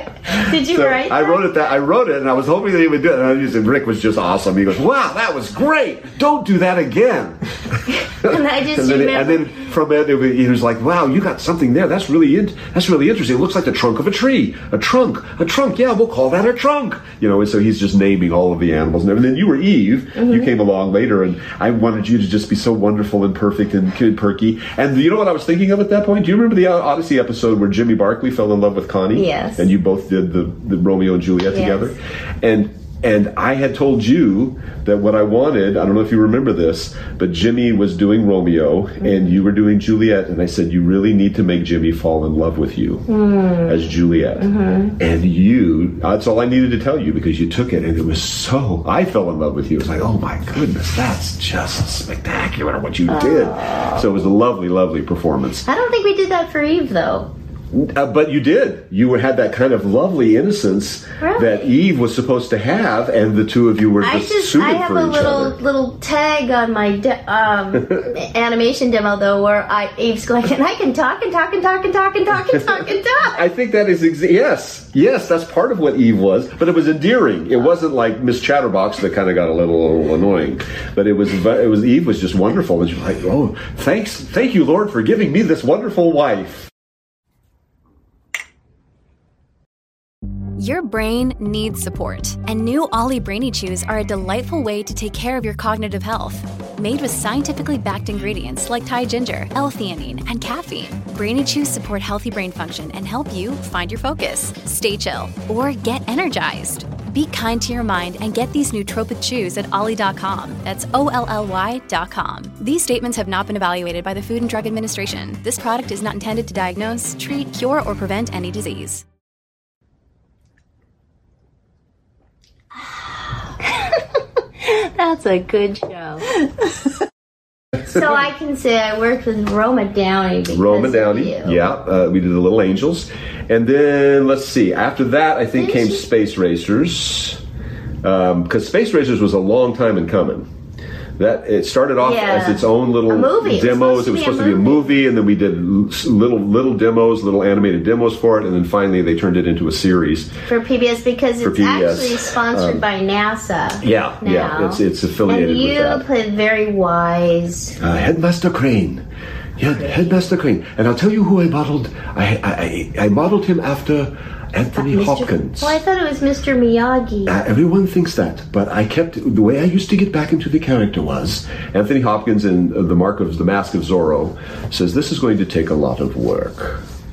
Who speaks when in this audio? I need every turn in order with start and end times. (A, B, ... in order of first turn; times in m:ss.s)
0:00.3-0:01.5 A
0:00.3-0:43.1 B
0:08.1-0:09.6 A
0:20.2-0:20.5 A
0:29.2-0:29.7 A
0:31.5-0:31.9 A
0:43.1-0:45.0 A
0:43.6-0:55.7 B
0:53.1-0:54.0 A
0:55.7-0:57.3 A
0:57.7-1:05.6 B
1:01.2-1:01.7 A
1:04.0-1:13.5 A
1:12.5-1:26.7 B
1:30.6-1:59.0 C
2:04.7-2:06.2 A
2:07.8-2:11.6 A
2:10.5-2:17.4 B
2:15.6-2:16.0 A
2:18.0-2:20.5 B
2:21.2-2:30.3 B
2:22.0-2:24.9 A
2:30.5-2:37.8 A
2:31.4-2:32.8 B
2:33.8-2:36.1 B
2:37.8-2:39.0 B
2:39.6-2:45.8 B
2:44.8-2:47.4 A
2:47.2-2:56.8 B